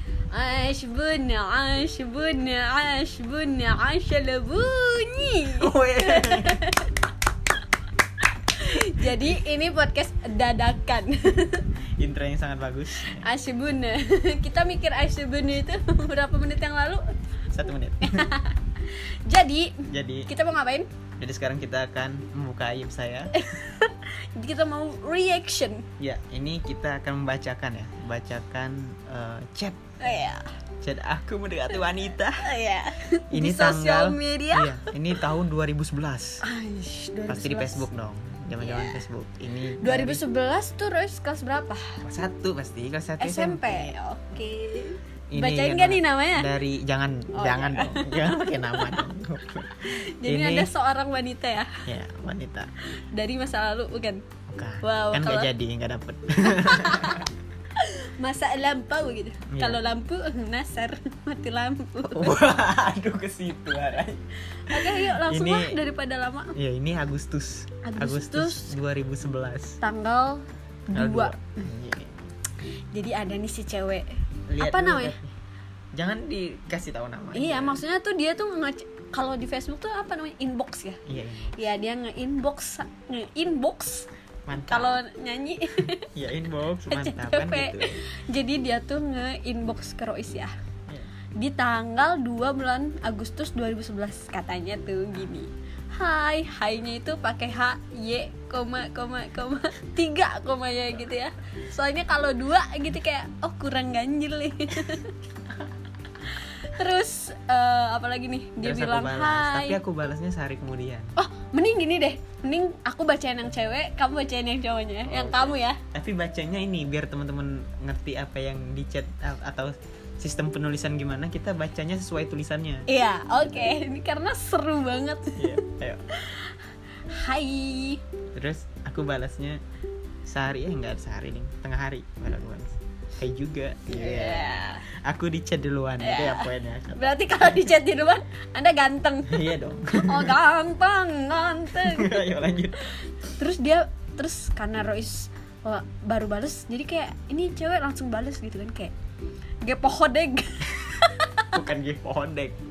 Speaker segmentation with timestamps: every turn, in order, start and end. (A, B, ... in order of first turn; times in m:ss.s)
0:00.3-0:07.0 A
0:05.5-0:06.6 B
0:08.4-0:11.7 A
0:11.7-0:13.3 B
0:13.0-0:17.0 A
0:17.5-0:18.3 B
0:18.0-0:20.9 A
0:19.9-0:20.3 B
0:21.2-0:23.3 B
0:23.3-0:25.8 A
0:26.0-0:29.8 B
0:30.0-0:30.5 A
0:30.8-0:32.5 B
0:32.4-0:35.2 A
0:33.3-0:36.4 B
0:36.4-0:37.9 A
0:37.3-0:40.2 B
0:38.6-0:39.0 A
0:39.8-0:42.0 A
0:42.0-0:43.9 B
0:43.2-0:46.5 A
0:45.3-0:50.7 B
0:47.3-0:49.0 A
0:49.9-0:51.8 A
0:51.9-0:52.7 B
0:53.1-0:54.2 A
0:54.5-0:57.3 B
0:54.8-0:55.5 A
0:56.5-1:02.4 A
0:59.5-0:59.8 B
1:02.1-1:05.8 B
1:04.7-1:06.5 A
1:06.6-1:09.8 B
1:07.8-1:08.7 A
1:09.8-1:11.4 A
1:10.9-1:12.3 B
1:12.9-1:15.2 A
1:14.5-1:15.3 B
1:15.9-1:17.8 B
1:17.3-1:21.0 A
1:21.1-1:21.7 B
1:21.6-1:24.1 A
1:24.4-1:25.0 B
1:24.7-1:26.1 A
1:26.1-1:28.0 B
1:26.9-1:30.5 A
1:31.4-1:45.1 A
1:46.2-1:49.8 A
1:48.6-1:51.1 B
1:51.2-1:55.8 A
1:55.0-2:02.9 B
2:02.9-2:05.5 A
2:03.4-2:03.7 B
2:05.4-2:06.0 B
2:06.1-2:08.0 A
2:08.3-2:09.6 B
2:10.2-2:17.7 B
2:13.9-2:14.8 A
2:16.0-2:19.4 A
2:19.3-2:20.4 B
2:20.0-2:22.2 A
2:21.8-2:22.9 B
2:22.8-2:28.9 A
2:29.6-2:31.5 A
2:31.5-2:32.6 B